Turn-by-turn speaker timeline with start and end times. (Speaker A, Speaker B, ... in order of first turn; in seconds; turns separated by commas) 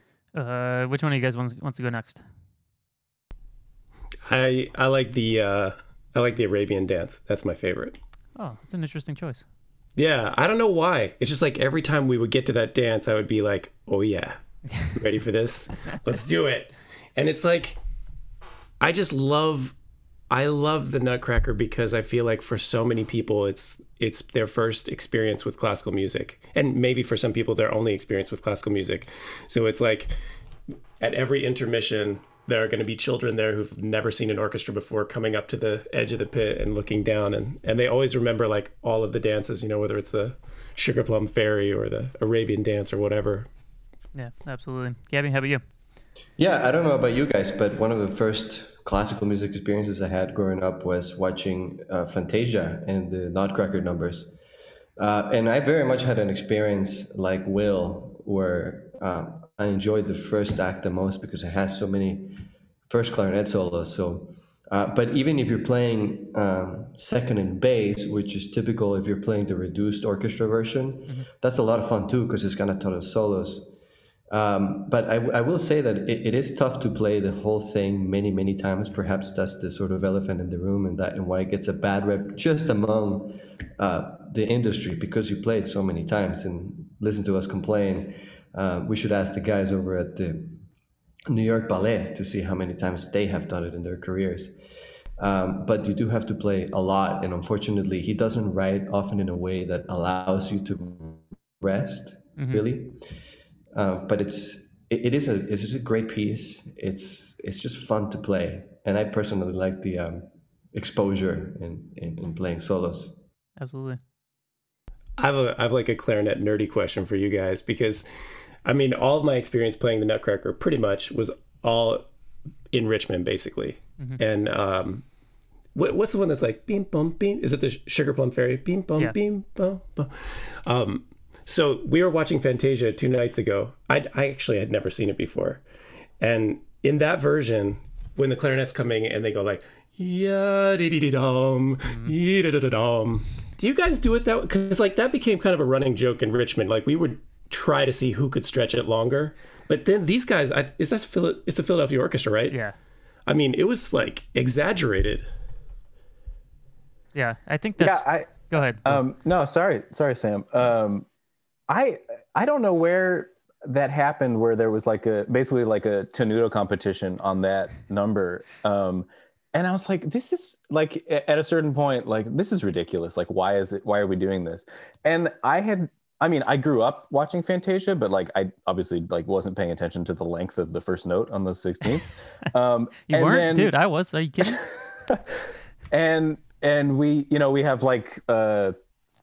Speaker A: 0.3-2.2, Speaker B: 4.3-8.0, Speaker A: 8.4-9.5, Speaker B: 10.0-17.8, Speaker B: 18.8-19.8, Speaker B: 20.3-30.1, Speaker B: 31.0-43.5, Speaker A: 44.1-45.6, Speaker C: 46.4-54.3, Speaker C: 55.0-73.7, Speaker C: 74.3-90.7, Speaker C: 91.3-94.5, Speaker C: 95.2-103.0, Speaker A: 102.4-102.7, Speaker C: 103.7-113.2, Speaker A: 113.6-114.0, Speaker B: 115.2-118.1, Speaker B: 118.7-122.1, Speaker B: 122.7-125.0, Speaker B: 125.8-135.6, Speaker B: 136.2-152.6, Speaker A: 141.9-142.1, Speaker B: 153.3-155.3, Speaker A: 157.1-159.0, Speaker D: 157.8-161.1, Speaker D: 161.7-183.7, Speaker A: 183.1-184.6, Speaker D: 185.9-188.7